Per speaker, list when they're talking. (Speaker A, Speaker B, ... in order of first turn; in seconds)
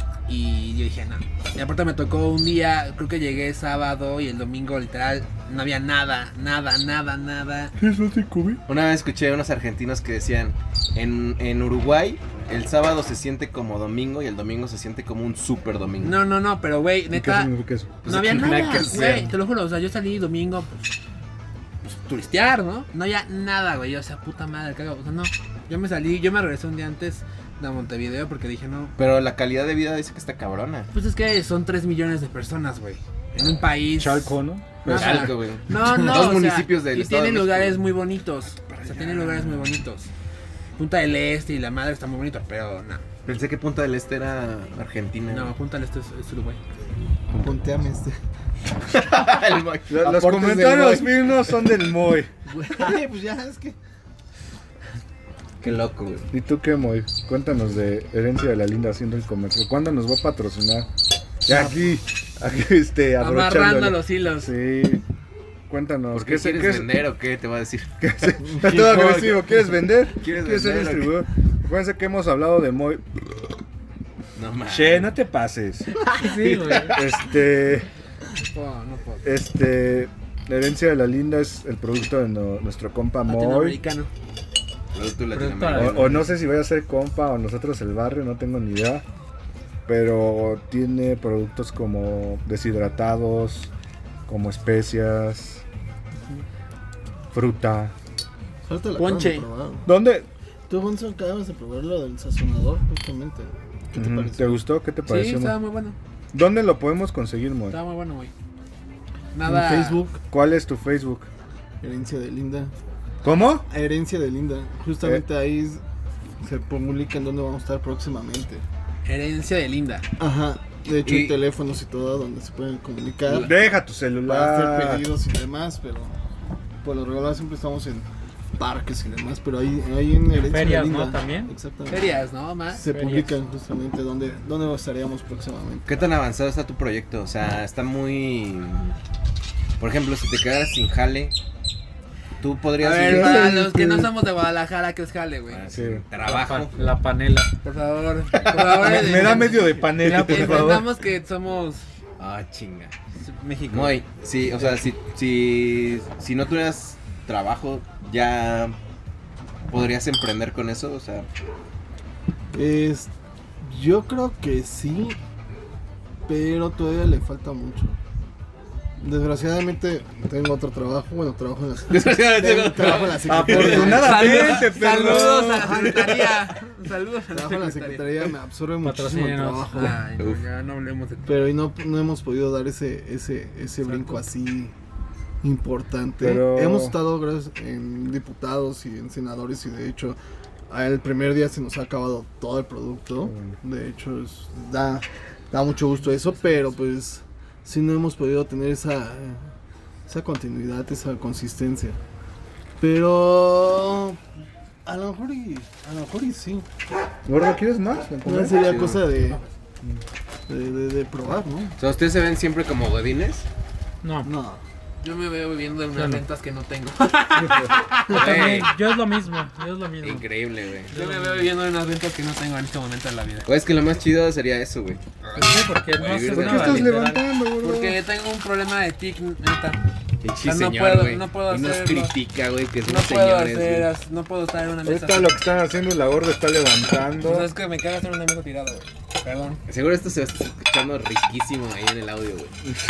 Speaker A: 0.3-7.7, 16.0-17.5, 18.0-20.9, 21.8-28.9, 30.9-34.3, 34.9-40.1, 40.8-43.0, 45.3-46.6, 52.5-53.0, 63.2-64.5, 78.4-79.3, 83.3-84.1, 99.0-99.5, 105.0-106.0, 107.7-108.3, 109.3-110.0, 119.0-120.1, 131.9-132.8, 142.8-145.7, 147.6-151.8, 153.2-154.0, 173.5-178.3, 179.7-181.5, 215.0-218.7, 220.9-223.5, 225.2-225.6, 227.6-229.8, 230.4-232.1, 232.8-235.4, 237.2-239.6
Speaker B: 7.8-8.6, 17.1-18.0, 34.0-35.3, 39.0-39.5, 49.9-52.3, 56.3-60.9, 61.5-65.0, 65.7-66.9, 68.0-73.5, 74.7-75.9, 76.9-77.9, 79.2-83.8, 85.7-89.0, 89.9-93.7, 94.3-95.6, 97.3-97.9, 99.8-100.3, 104.0-105.6, 106.3-107.8, 110.3-111.3, 113.2-113.7, 123.3-125.1, 145.7-146.0, 148.6-150.9, 173.2-176.0, 186.2-187.0, 193.2-193.6, 207.3-208.7, 226.3-228.0, 234.8-237.5
Speaker C: 8.7-16.2, 18.0-19.3, 29.0-30.9, 34.9-37.8, 43.2-45.5, 48.9-51.1, 55.6-56.3, 66.1-69.4, 70.2-71.2, 74.4-75.1, 76.7-77.0, 84.9-86.3, 121.0-121.4, 135.9-139.0, 139.8-141.3, 142.4-143.5, 145.5-146.8, 152.2-152.9, 153.7-158.8, 159.7-161.3, 171.9-174.7, 180.2-180.4, 208.6-209.0, 211.8-213.5, 218.1-218.7, 220.0-220.9, 223.5-225.0, 226.0-226.9, 230.2-233.9, 239.7-242.6
Speaker D: 47.4-48.2, 52.7-53.8, 68.4-69.3, 98.7-99.9, 100.7-104.6, 109.4-110.2, 111.8-112.7, 113.7-115.8, 116.4-118.6, 120.2-123.6, 124.3-126.2, 126.8-132.2, 132.7-136.0, 143.0-144.1, 162.5-165.2, 166.3-168.0, 169.0-174.6, 175.2-176.3, 177.3-180.0, 181.3-184.7, 185.4-190.2, 190.7-199.4, 200.1-202.0, 202.8-204.2, 204.8-206.7, 208.2-209.4, 210.5-211.8, 214.2-214.6
Speaker E: 76.1-77.0, 85.3-86.3, 130.4-131.5, 132.9-133.3, 146.2-147.5, 178.8-180.0, 214.0-214.3, 216.0-216.2, 218.1-220.3, 220.9-221.5, 225.3-227.2